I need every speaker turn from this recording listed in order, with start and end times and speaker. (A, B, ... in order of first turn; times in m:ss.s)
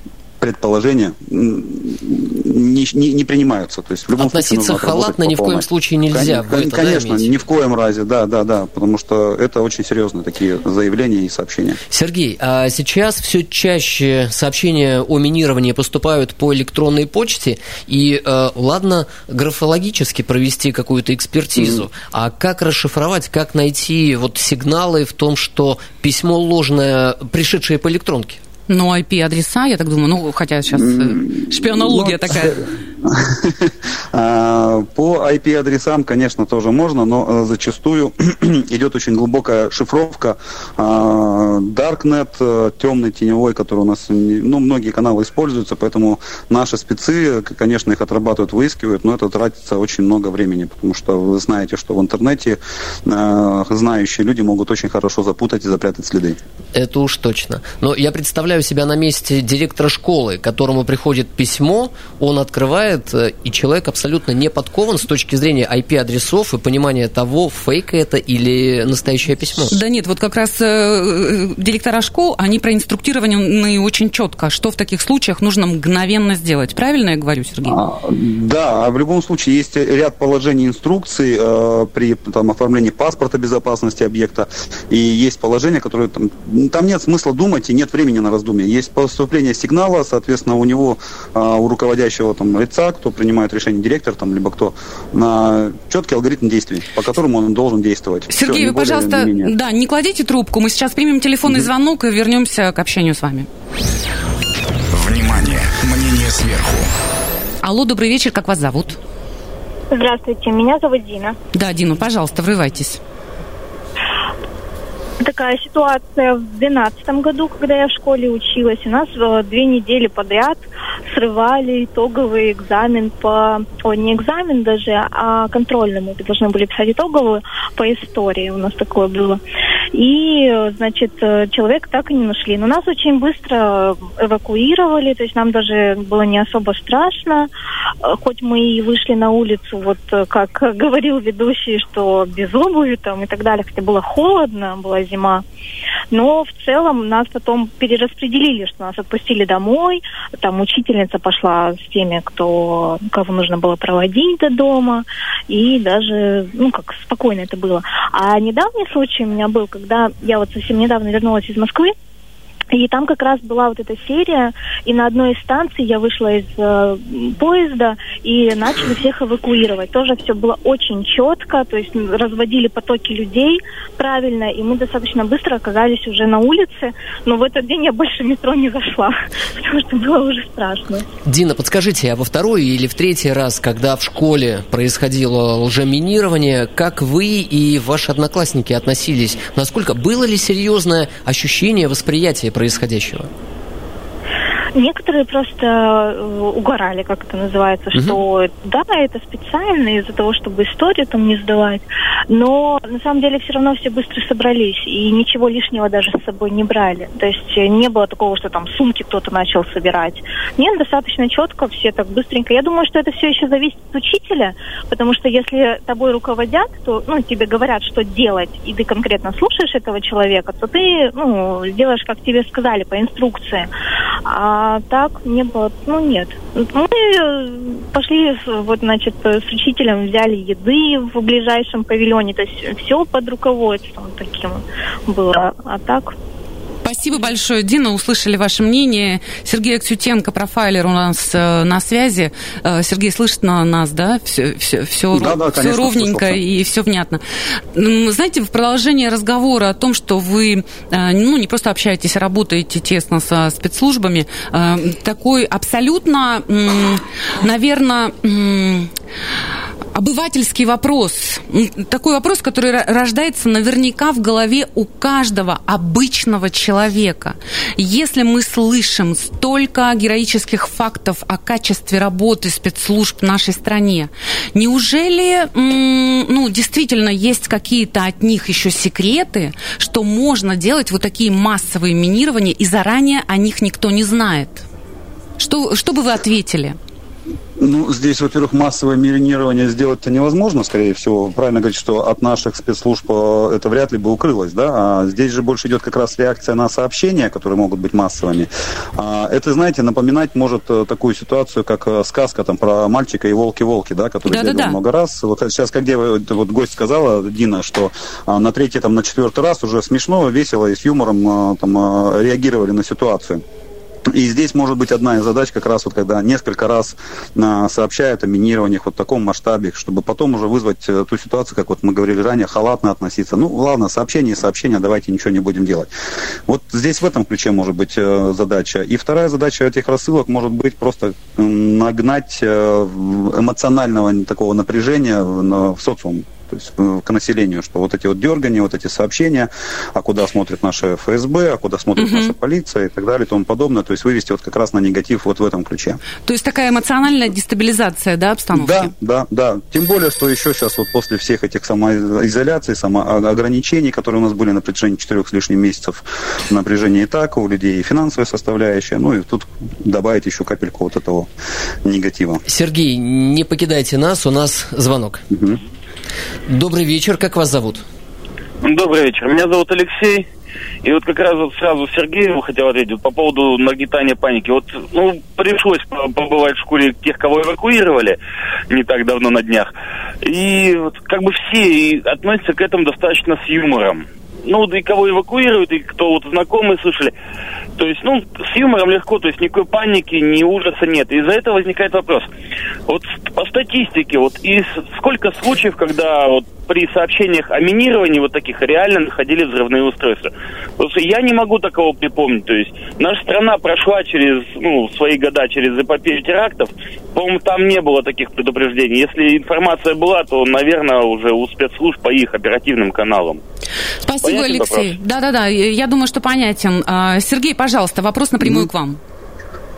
0:00.4-0:11.8 A
0:04.2-0:07.3 B
0:11.9-0:28.4 B
0:28.7-0:32.6 C
0:30.7-0:56.4 A
0:56.7-1:09.8 B
1:09.7-1:17.8 C
1:17.6-1:39.5 A
1:38.3-1:43.5 C
1:44.9-1:46.9 D
1:47.6-1:49.0 C
1:49.9-1:51.4 E
1:51.5-1:53.0 C
1:55.2-2:09.4 E
2:09.9-2:17.5 E
2:18.0-2:25.4 E
2:26.1-2:41.9 E
2:42.7-3:01.0 E
3:01.2-3:13.3 B
3:14.7-3:43.7 E
3:44.2-3:56.1 E
3:56.8-4:07.2 C
4:05.1-4:06.4 A
4:07.7-4:18.9 C
4:19.9-4:44.6 C
4:45.4-4:46.8 C
4:47.6-5:13.4 A
5:04.3-5:04.8 C
5:14.1-5:25.9 A
5:26.5-5:46.0 A
5:42.0-5:42.3 C
5:46.2-5:48.9 C
5:48.5-6:01.3 A
6:01.8-6:02.4 A
6:02.4-6:05.2 B
6:05.3-6:05.6 A
6:06.5-6:07.8 B
6:08.6-6:10.3 F
6:10.8-6:18.2 F
6:18.7-6:19.7 F
6:20.2-6:27.1 F
6:27.8-6:32.3 F
6:32.9-6:53.4 F
6:54.0-6:59.0 C
6:54.2-6:54.9 F